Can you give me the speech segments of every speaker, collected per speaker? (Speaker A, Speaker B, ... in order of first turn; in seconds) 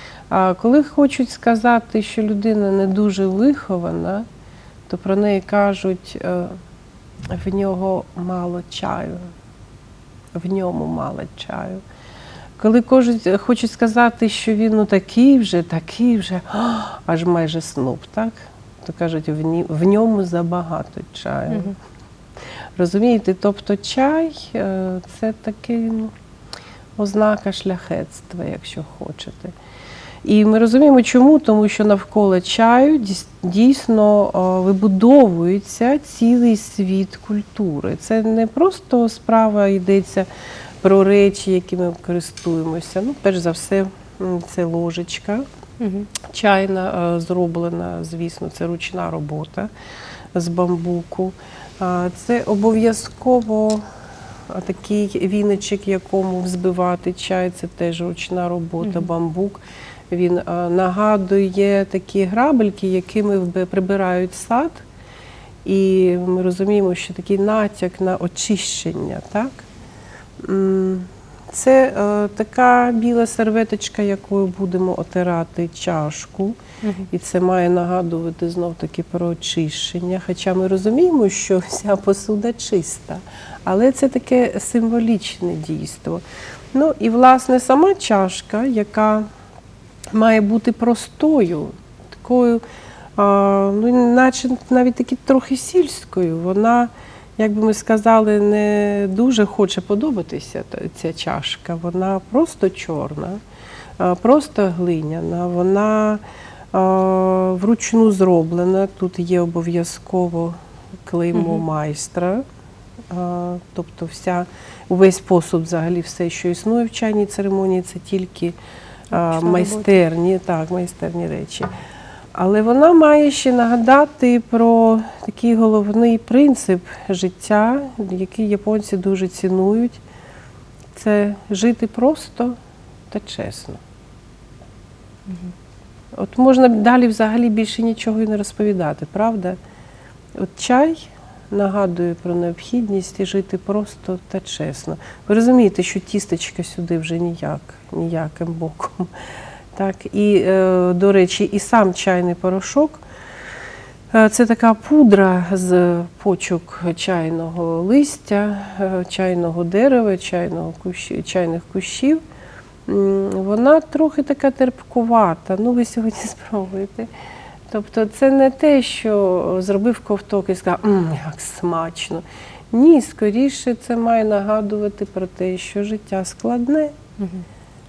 Speaker A: 0.3-4.2, 4.9-6.6, 7.3-9.3, 10.3-11.8, 12.6-21.7, 22.8-26.1, 27.0-29.5, 30.2-40.3, 40.8-45.5, 46.3-49.7, 50.3-53.8, 54.5-64.8, 65.6-69.7, 70.4-76.6, 77.1-86.2, 86.7-89.3, 90.1-92.6, 93.2-103.4, 104.0-106.2, 106.7-112.4, 113.1-118.5, 119.1-121.7, 122.3-130.0, 130.9-132.6, 133.1-133.8, 136.1-139.6, 140.3-149.1, 149.7-153.0, 154.1-162.2, 162.9-167.1, 167.7-177.0
Speaker B: 45.8-46.1, 111.3-111.6, 119.1-119.9, 135.3-135.5, 177.2-177.4